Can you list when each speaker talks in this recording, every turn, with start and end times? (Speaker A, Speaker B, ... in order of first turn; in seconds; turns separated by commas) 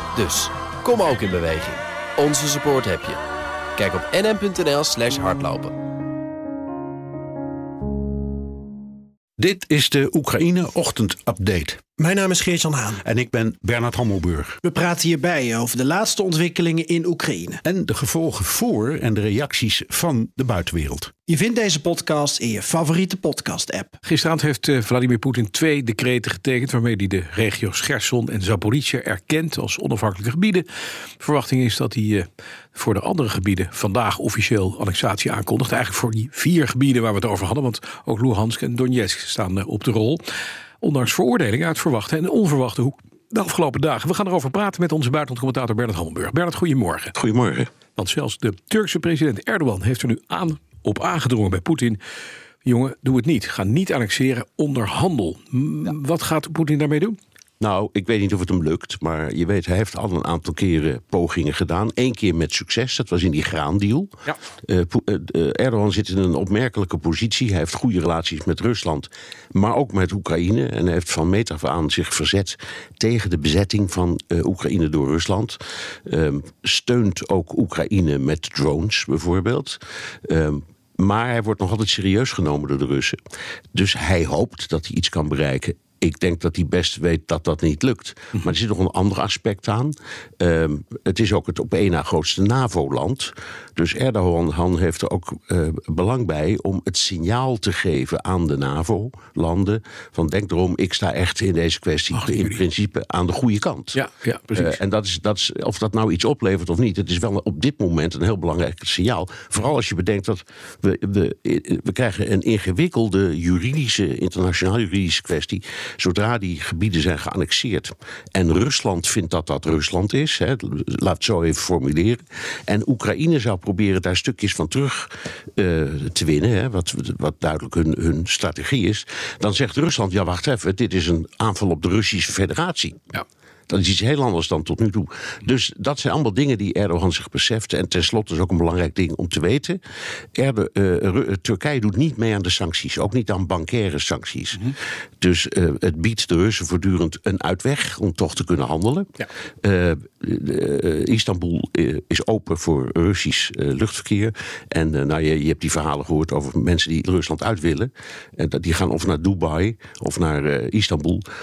Speaker A: 0.1-3.2, Speaker A: 3.8-5.8, Speaker B: 9.4-11.9, Speaker C: 12.0-13.0, Speaker B: 13.0-14.6, Speaker C: 14.6-17.6, Speaker B: 17.6-21.1, Speaker C: 21.3-23.9, Speaker D: 24.1-30.7, Speaker D: 31.2-40.2, Speaker D: 40.8-47.1, Speaker E: 47.2-47.7, Speaker D: 48.0-52.0, Speaker D: 52.6-57.2, Speaker E: 57.6-83.2, Speaker E: 83.7-104.0, Speaker D: 102.2-102.6, Speaker D: 104.0-104.8, Speaker E: 104.5-133.0, Speaker E: 133.7-139.8, Speaker E: 140.3-149.1, Speaker E: 149.6-161.2